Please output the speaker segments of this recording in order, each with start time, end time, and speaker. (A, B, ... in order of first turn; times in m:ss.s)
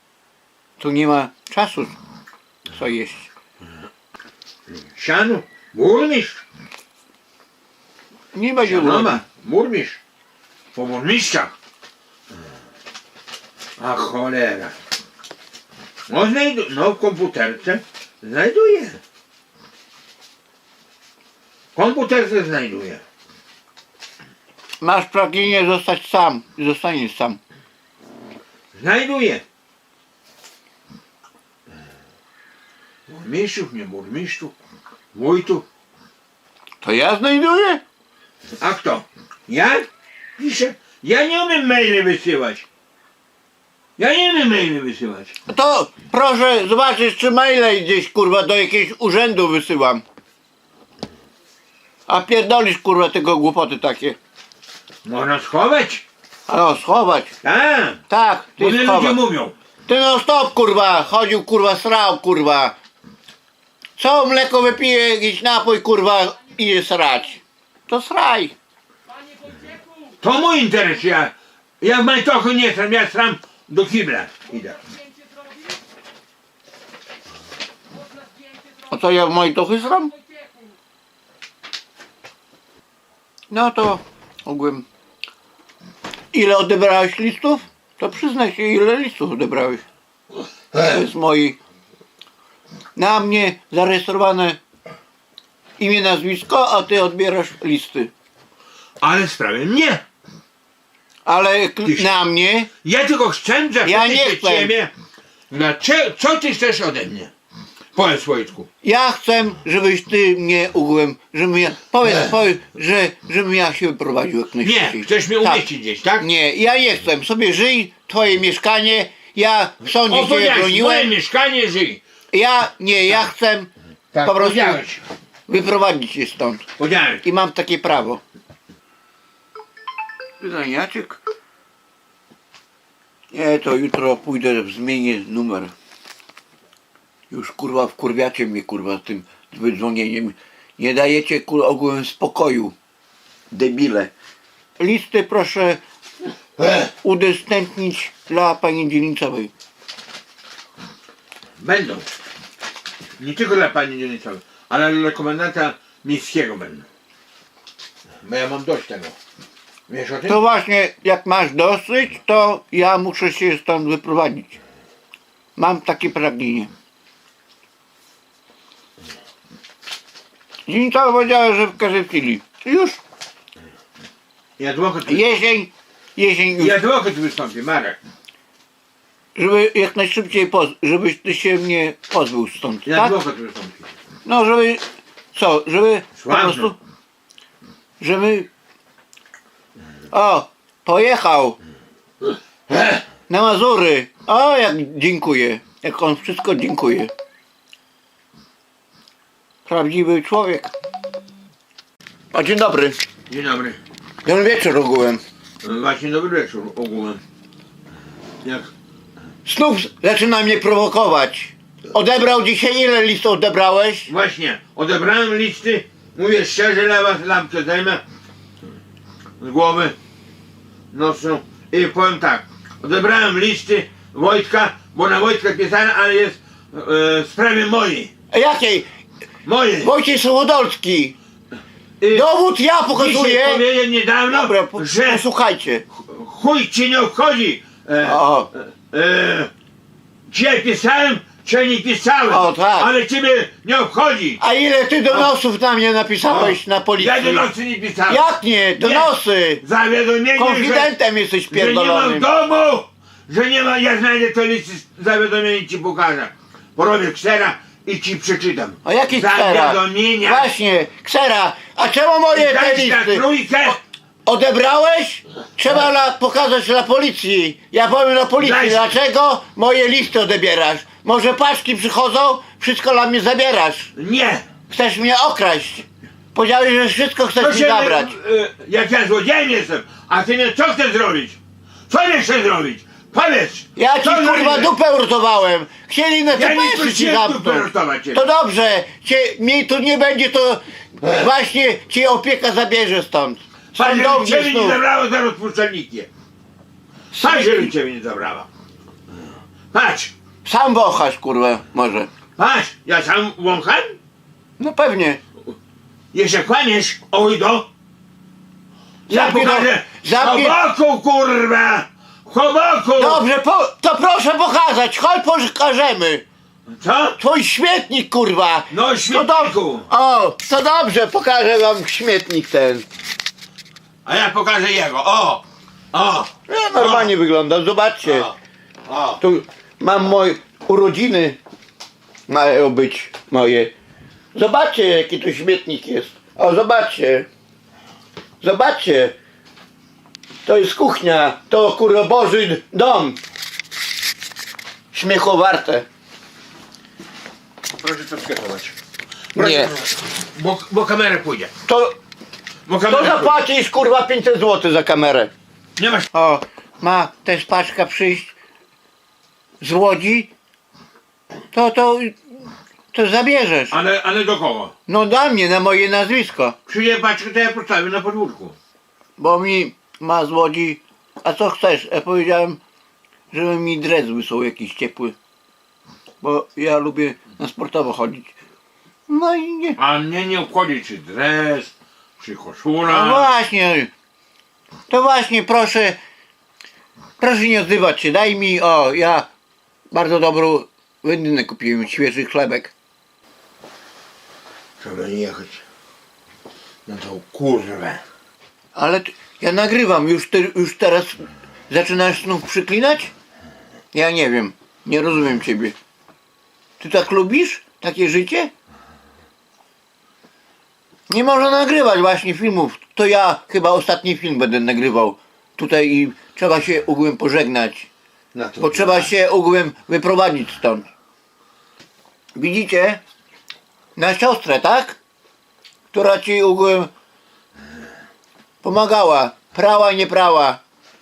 0:00.8-0:02.0 A
0:02.7-0:03.3 A
0:05.0-0:06.4 B
0:08.3-0:09.2 A
0:08.6-0:10.0 B
0:10.7-0:11.5 B
0:13.8-0:14.7 B
0:16.1-0:19.0 B
0:21.8-0:23.0 B
0:24.8-0:27.4 A
0:28.7-0:29.4 B
0:33.1-0:34.5 B
0:35.1-0:35.6 B
0:36.8-0:37.8 A
0:38.6-0:39.8 B
0:40.4-0:42.7 B
0:44.0-0:45.3 B
0:45.5-0:50.0 A
0:52.1-0:54.2 A
0:55.0-0:56.0 B
0:56.5-0:57.3 A
0:57.4-0:58.0 B
0:58.1-0:59.2 A
0:58.6-0:59.5 B
0:59.9-1:02.7 A
1:04.0-1:08.6 A
1:10.2-1:14.8 B
1:18.9-1:20.1 A
1:23.5-1:24.9 A
1:26.3-1:29.8 A
1:30.8-1:31.6 A
1:33.0-1:34.6 A
1:35.8-1:38.1 A
1:39.0-1:40.0 B
1:41.3-1:42.7 A
1:41.8-1:42.2 B
1:42.8-1:44.9 B
1:43.8-1:44.7 A
1:45.5-1:47.3 B
1:48.0-1:48.7 B
1:48.8-1:55.6 A
1:54.6-1:56.3 B
1:56.2-2:01.1 A
1:59.8-2:02.0 B
2:02.3-2:03.7 A
2:04.1-2:05.0 B
2:04.2-2:04.8 A
2:05.5-2:06.7 A
2:06.8-2:07.2 B
2:07.2-2:08.2 A
2:10.4-2:11.2 A
2:13.3-2:15.7 A
2:17.3-2:22.7 A
2:23.5-2:24.1 A
2:24.8-2:25.8 A
2:26.6-2:26.9 B
2:27.0-2:29.5 A
2:31.6-2:32.1 B
2:33.2-2:36.8 B
2:38.2-2:39.2 B
2:39.9-2:40.4 B
2:40.3-2:44.6 A
2:45.6-2:46.7 A
2:50.7-2:53.0 A
2:54.6-2:55.4 B
2:55.1-2:56.8 A
2:56.6-2:58.0 B
2:59.4-3:03.1 A
3:02.9-3:03.9 B
3:04.2-3:04.8 A
3:05.4-3:06.8 A
3:06.2-3:06.8 B
3:08.0-3:08.5 A
3:10.1-3:11.6 A
3:12.7-3:13.0 B
3:13.3-3:17.1 A
3:19.7-3:20.7 A
3:22.3-3:23.0 A
3:23.3-3:23.8 B
3:24.2-3:25.2 A
3:25.6-3:27.2 B
3:28.4-3:28.7 B
3:29.5-3:34.1 A
3:34.1-3:38.0 B
3:39.4-3:40.0 B
3:40.9-3:48.1 B
3:48.3-3:48.9 A
3:49.4-3:49.9 B
3:49.8-3:51.2 A
3:52.0-3:52.3 B
3:52.1-3:53.6 A
3:52.9-3:55.2 B
3:54.3-3:55.8 A
3:56.0-3:59.5 B
3:58.0-3:58.5 A
4:00.3-4:04.4 B
4:02.3-4:02.9 A
4:04.4-4:07.5 A
4:06.3-4:08.2 B
4:08.1-4:09.6 A
4:08.8-4:09.1 B
4:09.6-4:10.9 B
4:10.4-4:12.3 A
4:11.5-4:20.5 B
4:18.8-4:23.3 A
4:22.3-4:23.8 B
4:24.3-4:33.9 A
4:28.4-4:28.9 B
4:34.0-4:34.5 B
4:34.7-4:38.2 A
4:37.4-4:41.4 B
4:41.9-4:44.7 B
4:43.8-4:54.8 A
4:46.3-4:48.3 B
4:53.7-4:56.1 B
4:57.1-4:57.7 A
4:57.1-4:58.5 B
4:59.7-5:00.1 B
5:00.4-5:02.1 A
5:02.4-5:04.0 B
5:04.6-5:05.2 A
5:06.1-5:07.7 B
5:09.1-5:13.2 B
5:09.1-5:10.6 A
5:13.0-5:16.2 A
5:16.7-5:17.2 B
5:17.2-5:22.9 A
5:18.7-5:19.9 B
5:24.0-5:27.1 B
5:26.5-5:28.3 A
5:28.0-5:28.3 B
5:28.9-5:29.2 B
5:29.2-5:31.4 A
5:32.3-5:33.7 A
5:34.4-5:37.3 A
5:38.4-5:39.2 A
5:40.4-5:43.2 A
5:44.9-5:45.9 A
5:47.8-5:48.7 B
5:49.4-5:49.8 A
5:49.4-5:51.5 B
5:51.7-5:52.0 A
5:52.7-5:53.4 B
5:52.9-5:55.3 A
5:55.8-5:56.1 B
5:56.1-5:58.3 A
5:59.6-6:00.3 A
6:01.5-6:02.2 A
6:02.9-6:03.8 A
6:03.7-6:04.7 B
6:04.9-6:06.6 A
6:06.7-6:08.6 B
6:09.2-6:12.6 A
6:13.3-6:15.2 A
6:16.2-6:18.3 A
6:19.1-6:19.8 A
6:19.8-6:23.3 B
6:22.9-6:23.9 A
6:24.9-6:26.0 A
6:27.2-6:29.3 A
6:29.9-6:32.7 A
6:34.8-6:35.6 B
6:36.9-6:38.0 B
6:38.8-6:43.1 A
6:43.9-6:45.8 A
6:46.8-6:48.5 A
6:51.1-6:57.9 A
6:58.3-6:59.1 B
6:58.6-7:00.9 A
7:02.4-7:03.0 A
7:04.0-7:05.0 A
7:05.9-7:06.9 A
7:08.6-7:10.6 A